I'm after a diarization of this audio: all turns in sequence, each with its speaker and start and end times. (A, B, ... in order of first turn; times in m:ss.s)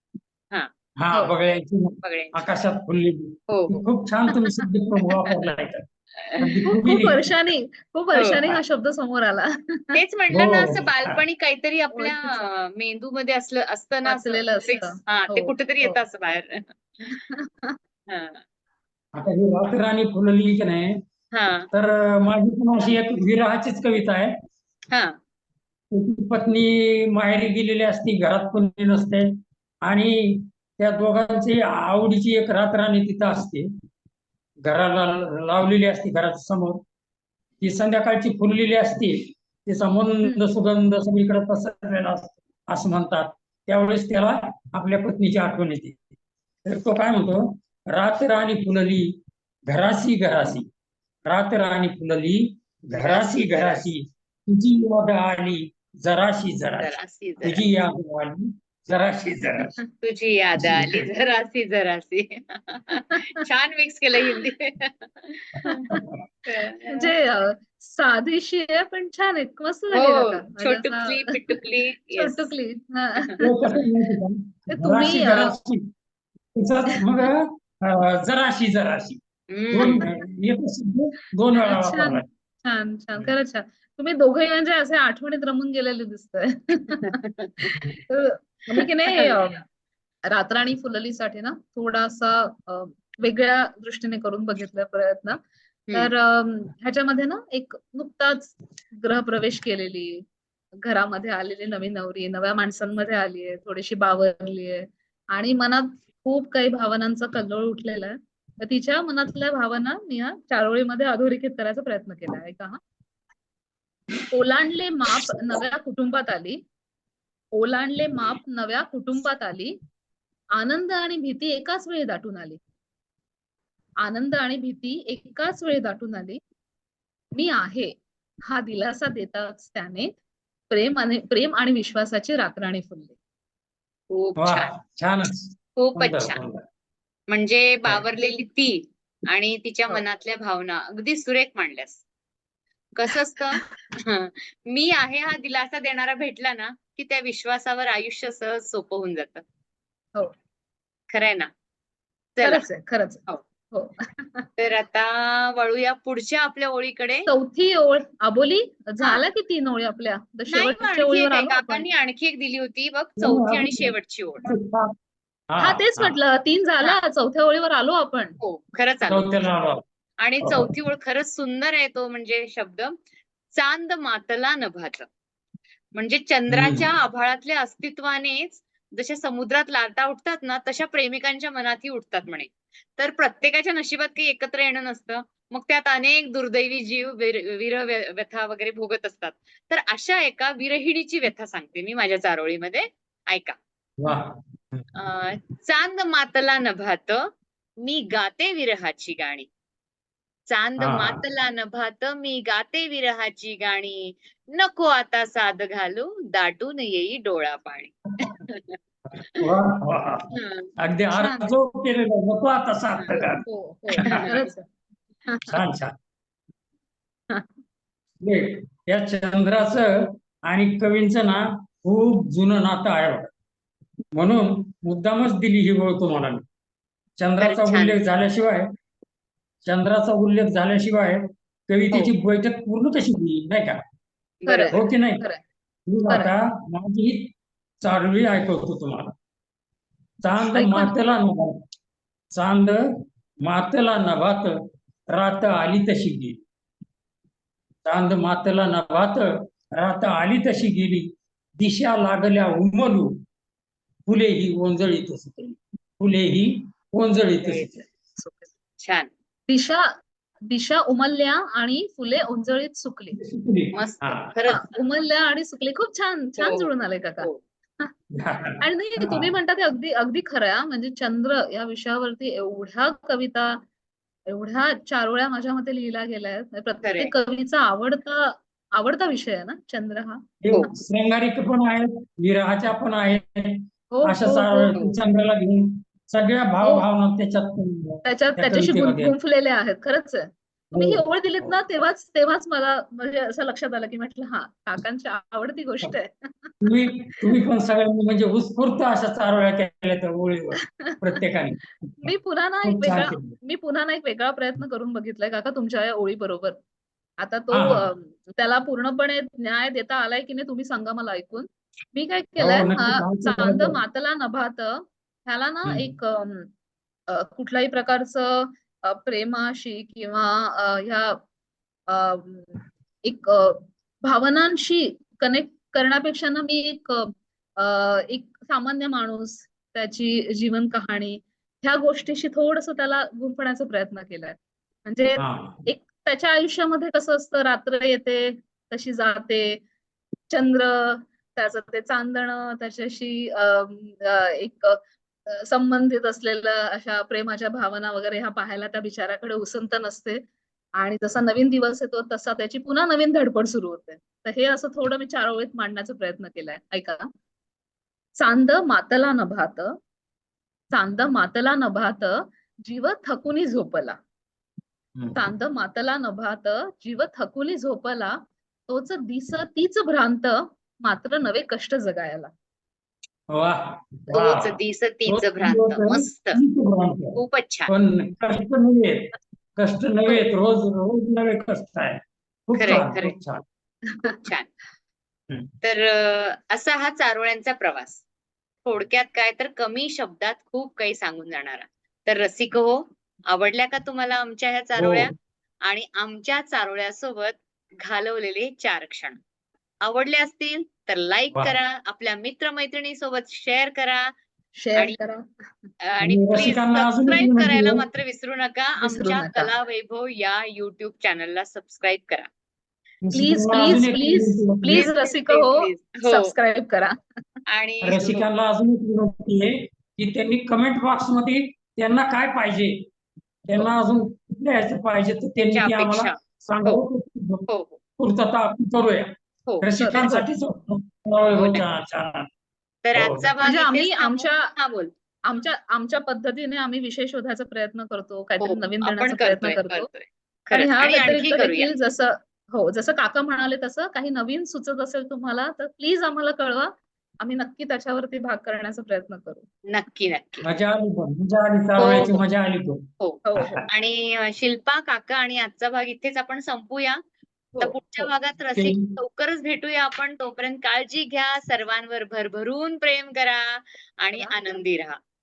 0:01.0-0:05.8 A
0:02.0-0:02.5 B
0:03.5-0:03.8 B
0:04.3-0:04.7 C
0:06.2-0:06.6 B
0:06.4-0:07.3 A
0:06.7-0:10.0 C
0:08.1-0:08.5 B
0:09.9-0:17.1 B
0:10.3-0:11.2 A
0:11.9-0:12.4 C
0:14.1-0:16.0 C
0:17.1-0:17.8 C
0:18.1-0:18.4 B
0:19.2-0:21.0 A
0:21.3-0:21.7 B
0:21.7-0:24.3 A
0:25.9-0:29.3 A
0:29.8-0:33.7 A
0:34.6-0:36.8 A
0:37.6-0:46.1 A
0:46.7-0:49.1 A
0:49.7-0:50.7 A
0:51.3-0:59.8 A
0:53.0-0:53.9 B
0:56.8-0:57.7 B
1:00.0-1:05.9 B
1:00.6-1:01.1 A
1:02.9-1:03.2 C
1:05.7-1:06.0 C
1:06.5-1:07.1 B
1:06.9-1:11.4 C
1:09.9-1:12.5 B
1:12.2-1:13.8 C
1:13.4-1:15.8 A
1:14.7-1:15.6 C
1:16.6-1:22.3 A
1:16.9-1:17.3 C
1:19.5-1:20.1 B
1:21.6-1:29.6 C
1:27.0-1:27.7 B
1:28.7-1:29.3 B
1:30.3-1:35.4 C
1:35.9-1:40.2 C
1:40.8-1:52.8 C
1:54.3-1:56.6 C
1:57.6-1:59.8 C
2:00.6-2:02.6 C
2:04.0-2:06.4 C
2:07.3-2:07.9 C
2:08.5-2:10.1 C
2:10.7-2:13.2 C
2:14.1-2:14.7 B
2:14.4-2:16.6 A
2:15.8-2:16.4 B
2:17.3-2:22.0 B
2:23.0-2:29.4 B
2:23.6-2:24.0 C
2:31.1-2:31.5 B
2:32.4-2:32.6 B
2:32.4-2:34.5 C
2:34.6-2:37.3 B
2:37.3-2:41.9 C
2:40.5-2:44.4 B
2:43.2-2:44.9 A
2:45.5-2:46.2 A
2:45.6-2:48.4 C
2:48.4-2:49.5 B
2:49.1-2:49.8 A
2:50.2-2:52.9 B
2:50.4-2:50.7 A
2:53.6-2:55.1 B
2:56.0-3:13.6 B
2:56.5-2:56.9 A
3:14.0-3:14.8 A
3:15.0-3:17.2 B
3:17.8-3:19.5 B
3:20.5-3:28.8 B
3:20.8-3:21.2 A
3:29.1-3:30.3 A
3:30.3-3:30.7 B
3:30.8-3:33.4 A
3:31.2-3:31.5 C
3:33.4-3:34.7 C
3:34.0-3:34.5 B
3:34.0-3:34.3 A
3:35.3-3:35.6 C
3:35.5-3:35.9 A
3:38.2-3:43.3 A
3:44.1-3:46.4 A
3:47.2-3:48.7 A
3:47.4-3:48.0 B
3:49.6-3:53.8 A
3:54.4-3:54.8 B
3:54.5-3:55.4 C
3:54.7-3:55.2 A
3:55.9-3:59.1 A
4:00.2-4:01.6 A
4:00.4-4:01.0 C
4:02.3-4:02.8 A
4:03.4-4:04.5 A
4:05.1-4:06.4 A
4:07.8-4:13.2 A
4:14.1-4:17.9 A
4:17.4-4:17.7 B
4:18.2-4:18.5 C
4:18.8-4:19.1 B
4:19.5-4:19.9 C
4:20.5-4:23.2 C
4:23.2-4:24.3 A
4:23.7-4:24.7 B
4:24.5-4:27.3 C
4:26.4-4:26.7 B
4:28.2-4:29.3 A
4:28.6-4:33.6 C
4:34.3-4:40.7 C
4:36.8-4:37.1 B
4:40.4-4:49.2 A
4:43.9-4:44.8 C
4:48.0-4:56.6 C
4:50.7-4:51.6 A
4:56.6-5:02.1 A
5:00.6-5:01.0 C
5:02.0-5:06.6 C
5:02.6-5:03.3 A
5:07.2-5:16.5 C
5:07.5-5:07.9 A
5:12.4-5:13.8 A
5:17.1-5:21.2 C
5:21.9-5:39.6 C
5:35.2-5:35.6 A
5:40.3-5:50.2 C
5:50.8-5:57.1 C
5:58.2-5:59.8 C
6:00.7-6:04.0 C
6:05.0-6:05.2 A
6:05.2-6:12.3 C
6:13.3-6:14.6 A
6:14.1-6:16.4 B
6:15.1-6:23.4 A
6:17.2-6:17.7 B
6:22.6-6:23.2 B
6:23.9-6:24.2 C
6:24.0-6:24.5 B
6:25.6-6:28.0 B
6:28.6-6:35.1 B
6:34.8-6:35.1 A
6:35.7-6:39.2 B
6:39.8-6:44.1 B
6:44.6-6:45.7 C
6:45.9-6:52.3 B
6:46.0-6:47.8 A
6:48.8-6:49.5 C
6:53.0-6:54.9 A
6:53.1-6:57.4 C
6:54.8-6:56.3 B
6:57.5-6:58.2 B
6:57.8-7:02.8 A
7:03.5-7:07.5 A
7:05.4-7:06.8 B
7:07.5-7:07.8 B
7:08.0-7:12.3 A
7:09.5-7:10.2 B
7:09.8-7:10.3 C
7:11.3-7:11.6 B
7:12.8-7:14.9 B
7:13.0-7:13.3 A
7:13.4-7:14.5 C
7:15.2-7:19.9 C
7:18.4-7:21.7 B
7:20.5-7:29.5 C
7:29.7-7:30.5 B
7:30.4-7:32.8 A
7:31.8-7:32.2 B
7:33.0-7:37.0 B
7:33.2-7:33.6 C
7:33.4-7:33.6 A
7:37.5-7:38.1 C
7:37.6-7:45.0 B
7:38.6-7:38.9 A